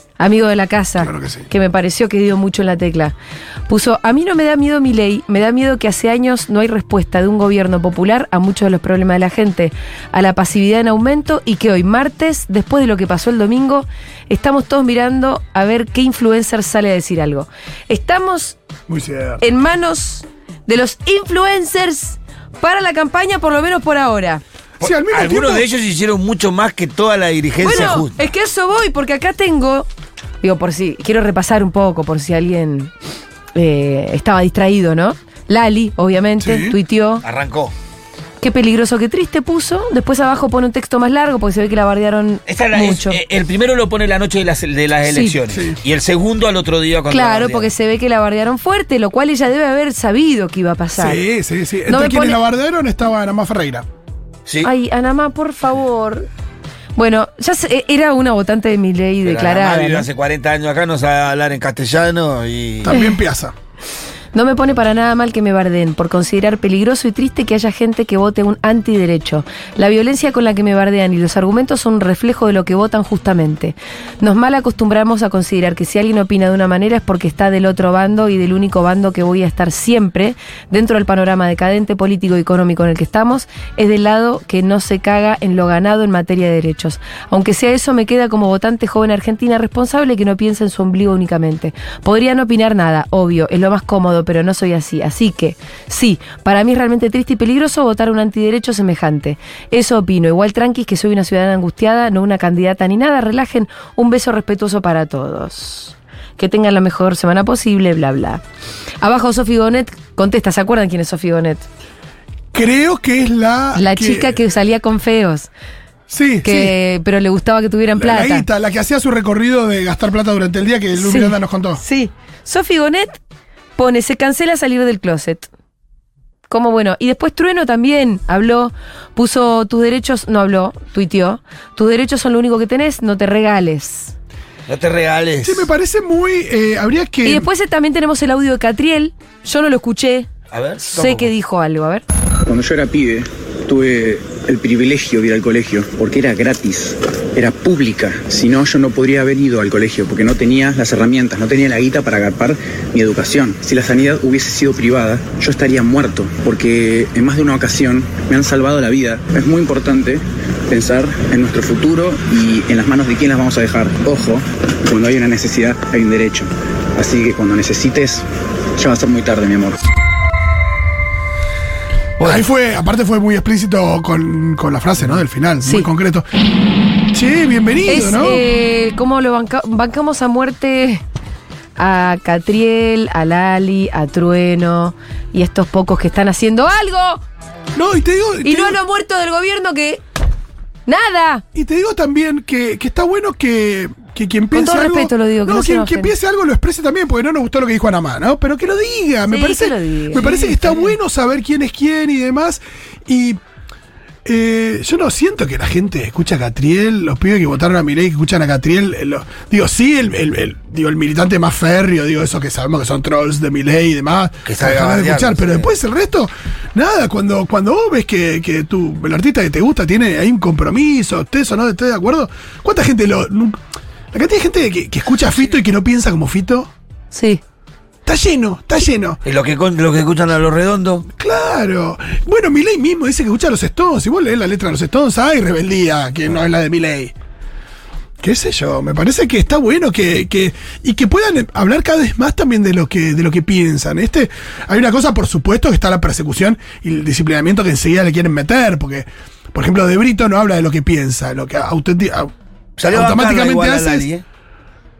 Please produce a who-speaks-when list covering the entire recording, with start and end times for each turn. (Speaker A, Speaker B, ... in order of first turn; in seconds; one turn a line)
Speaker A: 0.2-3.1
Speaker B: 1.0-1.5
Speaker A: 3.7-18.6
Speaker B: 18.9-19.4
Speaker A: 19.4-24.4
Speaker B: 24.8-25.7
Speaker C: 24.8-28.1
Speaker A: 27.6-29.9
Speaker A: 30.4-32.9
Speaker A: 33.5-37.2
Speaker B: 36.4-36.8
Speaker C: 37.2-37.7
Speaker A: 38.4-43.2
Speaker C: 42.5-47.7
Speaker A: 45.1-45.3
Speaker B: 45.5-45.8
Speaker A: 47.1-51.2
Speaker B: 51.0-53.9
Speaker A: 51.9-52.4
Speaker A: 54.6-56.3
Speaker A: 57.0-60.1
Speaker C: 59.2-62.9
Speaker B: 62.8-63.5
Speaker A: 62.9-63.2
Speaker A: 64.3-108.4
Speaker A: 109.0-111.7
Speaker B: 112.5-114.4
Speaker A: 113.7-115.5
Speaker B: 116.1-116.7
Speaker A: 116.4-118.5
Speaker B: 118.0-121.8
Speaker A: 121.0-123.2
Speaker A: 123.8-125.5
Speaker A: 126.5-134.1
Speaker C: 134.7-135.7
Speaker B: 135.4-137.5
Speaker A: 137.2-140.3
Speaker C: 140.5-141.3
Speaker A: 140.9-142.0
Speaker D: 142.4-168.2
Speaker D: 168.8-169.8
Speaker B: 172.2-176.2
Speaker B: 177.1-178.4
Speaker A: 177.9-181.0
Speaker A: 181.8-187.2
Speaker B: 187.7-188.8
Speaker A: 188.4-190.0
Speaker A: 190.9-191.4
Speaker B: 191.5-203.4
Speaker A: 194.5-196.1
Speaker A: 199.3-200.9
Speaker B: 204.2-223.6
Speaker C: 214.4-215.7
Speaker B: 224.1-226.7
Speaker A: 227.1-227.4
Speaker B: 228.1-229.2
Speaker C: 229.2-231.1
Speaker B: 231.2-237.1
Speaker B: 238.2-252.3
Speaker C: 252.8-254.2
Speaker B: 252.9-254.1